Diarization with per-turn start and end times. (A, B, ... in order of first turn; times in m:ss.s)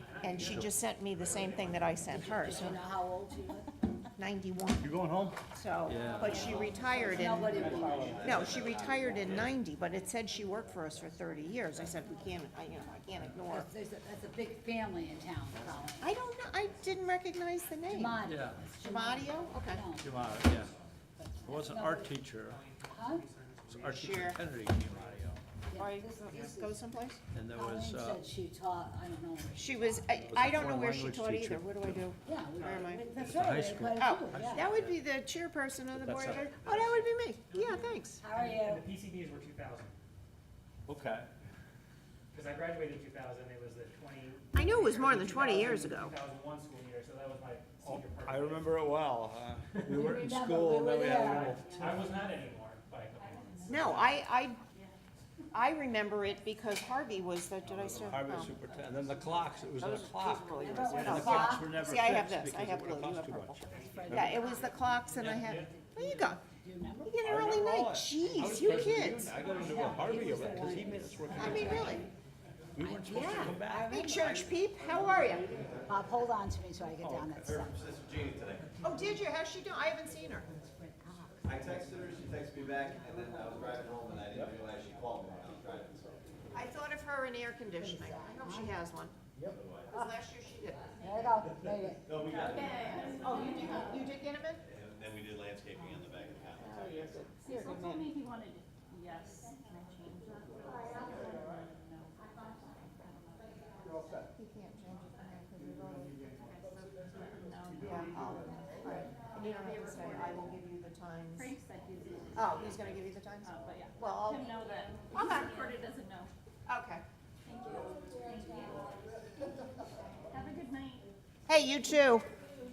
0:00.2-0:02.9 A
0:02.0-0:03.7 B
0:04.2-0:04.9 A
0:04.8-0:06.7 C
0:05.5-0:13.7 A
0:06.2-0:07.0 D
0:06.9-0:08.3 B
0:07.5-0:09.5 E
0:07.5-0:08.6 C
0:13.5-0:16.2 B
0:16.0-0:19.8 A
0:17.9-0:20.2 B
0:18.3-0:18.6 C
0:20.0-0:20.7 C
0:21.2-0:22.1 B
0:21.4-0:22.6 C
0:22.4-0:25.6 F
0:22.9-0:23.3 B
0:23.7-0:25.4 C
0:23.9-0:24.4 A
0:25.6-0:26.7 B
0:25.8-0:27.2 A
0:26.3-0:26.6 F
0:27.3-0:28.2 C
0:27.5-0:30.1 B
0:29.6-0:33.1 A
0:30.2-0:32.1 C
0:32.2-0:34.7 B
0:33.2-0:35.0 C
0:33.9-0:38.2 A
0:35.9-0:37.0 C
0:37.5-0:40.0 F
0:38.2-0:38.9 B
0:40.9-0:41.3 C
0:42.3-0:48.8 F
0:44.5-0:46.1 A
0:47.8-0:51.9 C
0:50.0-0:52.2 B
0:51.0-0:52.3 D
0:51.2-0:54.1 F
0:53.2-0:54.0 D
0:53.7-0:54.6 A
0:54.7-0:55.0 D
0:55.5-0:58.6 A
0:57.6-1:04.4 C
0:59.7-1:06.4 A
1:00.6-1:01.8 B
1:00.8-1:01.3 F
1:03.7-1:05.6 F
1:03.7-1:04.8 B
1:06.0-1:07.2 B
1:07.0-1:09.4 A
1:07.2-1:12.1 C
1:08.4-1:12.1 B
1:11.3-1:12.1 A
1:12.8-1:14.2 C
1:12.8-1:14.6 B
1:13.1-1:15.5 A
1:15.2-1:15.9 E
1:15.8-1:17.8 B
1:17.0-1:17.6 C
1:17.4-1:18.8 E
1:18.8-1:20.5 A
1:20.6-1:21.8 B
1:21.5-1:26.2 E
1:23.0-1:23.6 B
1:24.3-1:24.6 C
1:26.5-1:29.2 A
1:27.8-1:28.8 B
1:29.5-1:30.1 B
1:29.5-1:30.0 E
1:29.9-1:31.1 A
1:31.0-1:32.2 B
1:32.0-1:33.0 E
1:32.2-1:34.1 D
1:33.2-1:34.6 A
1:34.7-1:37.2 E
1:36.6-1:38.1 A
1:37.4-1:44.2 D
1:44.3-1:46.9 A
1:46.4-1:50.6 D
1:47.8-1:51.6 A
1:48.0-1:48.3 F
1:51.4-1:52.9 D
1:52.4-1:54.5 A
1:53.4-1:56.3 D
1:55.1-1:55.6 A
1:56.7-1:57.0 A
1:57.4-1:59.0 D
2:00.3-2:01.1 D
2:01.5-2:02.2 A